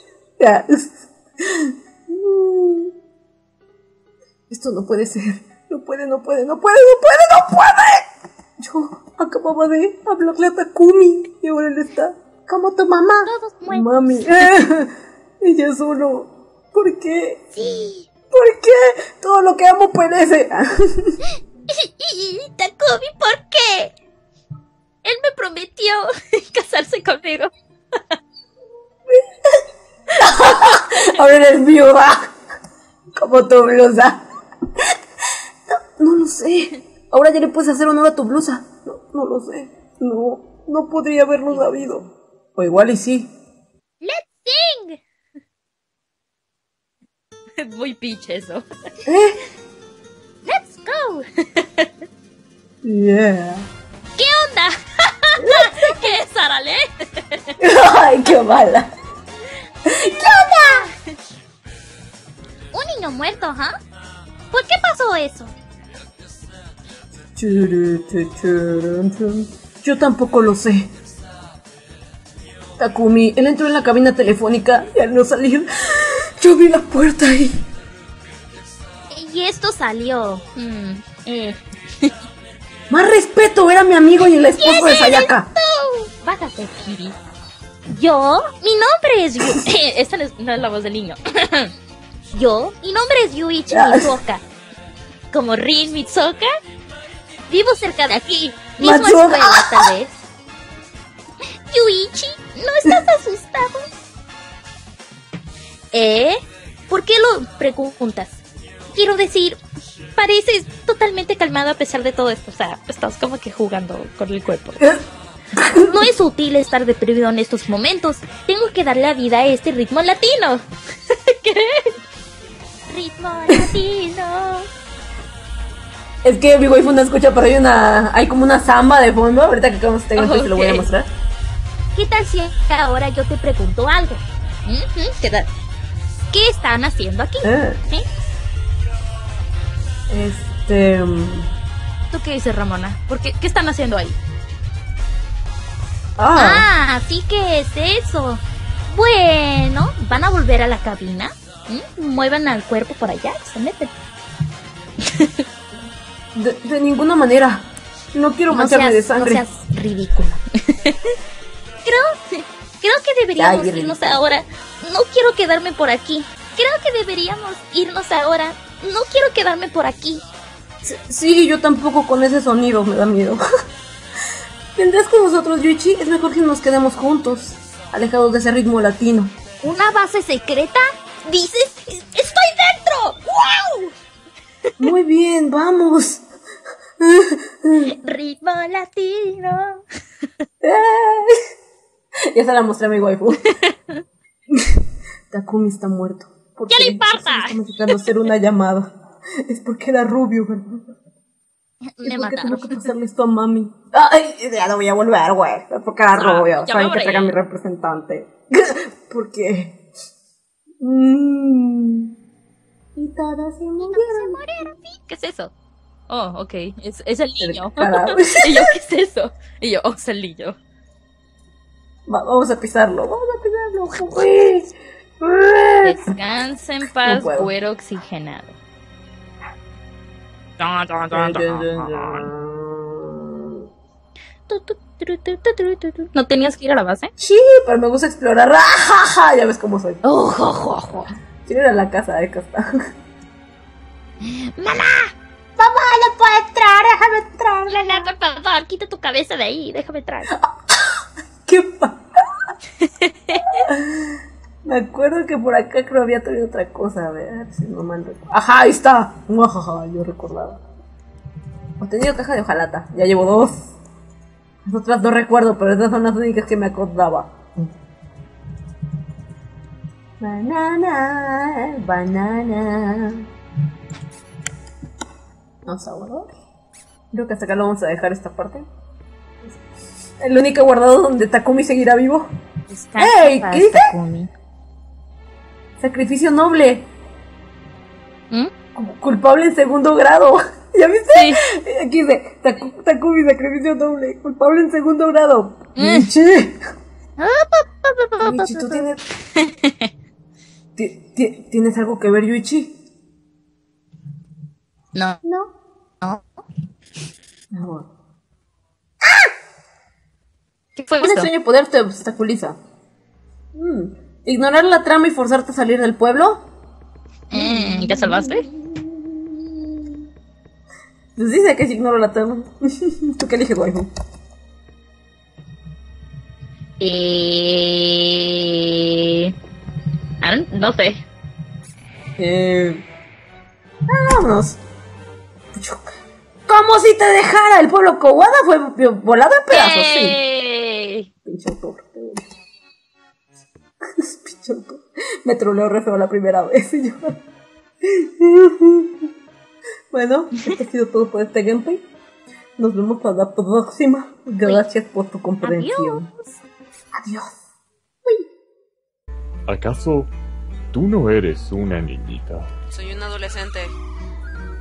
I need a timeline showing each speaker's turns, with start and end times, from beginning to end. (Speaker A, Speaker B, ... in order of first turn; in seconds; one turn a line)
Speaker A: 0.4-2.9
Speaker A: 4.5-8.1
Speaker A: 8.6-17.5
Speaker B: 13.2-14.5
Speaker B: 17.5-18.1
Speaker A: 18.3-21.2
Speaker B: 21.7-23.9
Speaker B: 25.0-28.0
Speaker A: 29.1-29.6
Speaker A: 30.2-32.3
Speaker A: 33.1-34.2
Speaker A: 35.7-43.3
Speaker B: 41.5-42.0
Speaker B: 44.0-45.0
Speaker B: 47.6-48.6
Speaker A: 49.0-49.4
Speaker B: 50.5-51.9
Speaker A: 52.8-53.7
Speaker B: 54.2-57.5
Speaker A: 55.4-56.0
Speaker A: 57.6-58.9
Speaker A: 59.9-60.8
Speaker B: 60.2-61.0
Speaker B: 62.7-63.7
Speaker B: 64.5-65.5
Speaker A: 67.3-70.9
Speaker A: 72.8-77.6
Speaker B: 79.1-82.1
Speaker A: 82.9-85.5
Speaker B: 84.6-87.1
Speaker B: 87.9-91.7
Speaker B: 92.3-94.4
Speaker A: 93.7-94.2
Speaker B: 95.3-96.5
Speaker B: 97.5-100.2
Speaker A: 98.8-99.9
Speaker B: 101.7-103.9
Speaker B: 105.9-106.4
Speaker B: 106.9-108.4
Speaker B: 108.9-109.6
Speaker B: 110.2-114.8
Speaker A: 115.5-115.9
Speaker B: 115.8-121.9
Speaker B: 122.9-124.7
Speaker A: 126.2-131.1
Speaker B: 130.2-130.9
Speaker B: 131.9-135.5
Speaker B: 136.3-138.0
Speaker A: 137.4-137.8
Speaker A: 140.1-141.5
Speaker B: 142.1-144.2
Speaker A: 146.2-146.7
Speaker B: 146.3-153.9
Speaker B: 155.0-155.4
Speaker A: 156.3-159.4
Speaker B: 158.5-161.0
Speaker B: 161.8-170.2
Speaker A: 163.4-164.2
Speaker A: 170.8-173.4
Speaker A: 174.8-179.3
Speaker B: 179.6-183.9
Speaker A: 184.8-186.2
Speaker A: 187.0-187.9
Speaker B: 187.9-189.8
Speaker A: 190.6-191.3
Speaker A: 192.3-193.5
Speaker B: 193.4-194.0
Speaker A: 194.5-200.9
Speaker B: 196.7-198.1
Speaker B: 202.0-202.8
Speaker A: 202.0-209.8
Speaker B: 206.2-207.3
Speaker A: 210.8-212.1
Speaker A: 212.9-214.4
Speaker B: 213.8-215.5
Speaker B: 216.1-220.6
Speaker A: 217.4-218.7
Speaker A: 222.1-226.1
Speaker B: 225.8-228.6
Speaker A: 227.0-227.5
Speaker B: 230.6-232.3
Speaker A: 231.1-233.6
Speaker B: 234.5-237.1
Speaker A: 237.2-240.0
Speaker B: 240.0-241.1
Speaker A: 241.4-242.7
Speaker B: 244.2-245.1
Speaker C: 245.6-248.0
Speaker B: 247.7-250.3
Speaker A: 250.3-252.3
Speaker B: 252.8-253.6
Speaker A: 253.6-260.6
Speaker A: 261.8-263.8
Speaker A: 264.6-267.7
Speaker A: 270.2-273.2
Speaker A: 275.6-276.3
Speaker A: 277.1-278.6
Speaker A: 280.2-282.3
Speaker B: 282.7-284.3
Speaker A: 283.0-283.9
Speaker A: 285.8-286.9
Speaker A: 288.7-296.6
Speaker B: 291.1-291.4
Speaker B: 295.8-296.1
Speaker B: 297.2-298.8
Speaker A: 298.2-299.0
Speaker B: 299.4-299.9
Speaker A: 300.8-302.7
Speaker B: 304.9-305.2
Speaker A: 307.5-307.9
Speaker B: 310.8-311.3
Speaker A: 311.0-312.6
Speaker A: 313.5-316.4
Speaker B: 317.3-318.4
Speaker A: 317.3-319.5
Speaker A: 321.1-323.9
Speaker B: 326.8-329.3
Speaker B: 330.2-331.0
Speaker A: 332.2-332.8
Speaker A: 333.9-334.6
Speaker A: 335.5-335.8
Speaker A: 336.5-340.2
Speaker B: 339.5-341.1
Speaker A: 341.2-342.3
Speaker A: 343.8-347.2
Speaker A: 347.8-349.1
Speaker A: 349.9-351.8
Speaker A: 352.6-356.1
Speaker B: 355.4-356.4
Speaker A: 356.9-357.3
Speaker D: 359.5-360.1
Speaker D: 360.7-362.5
Speaker A: 362.7-363.7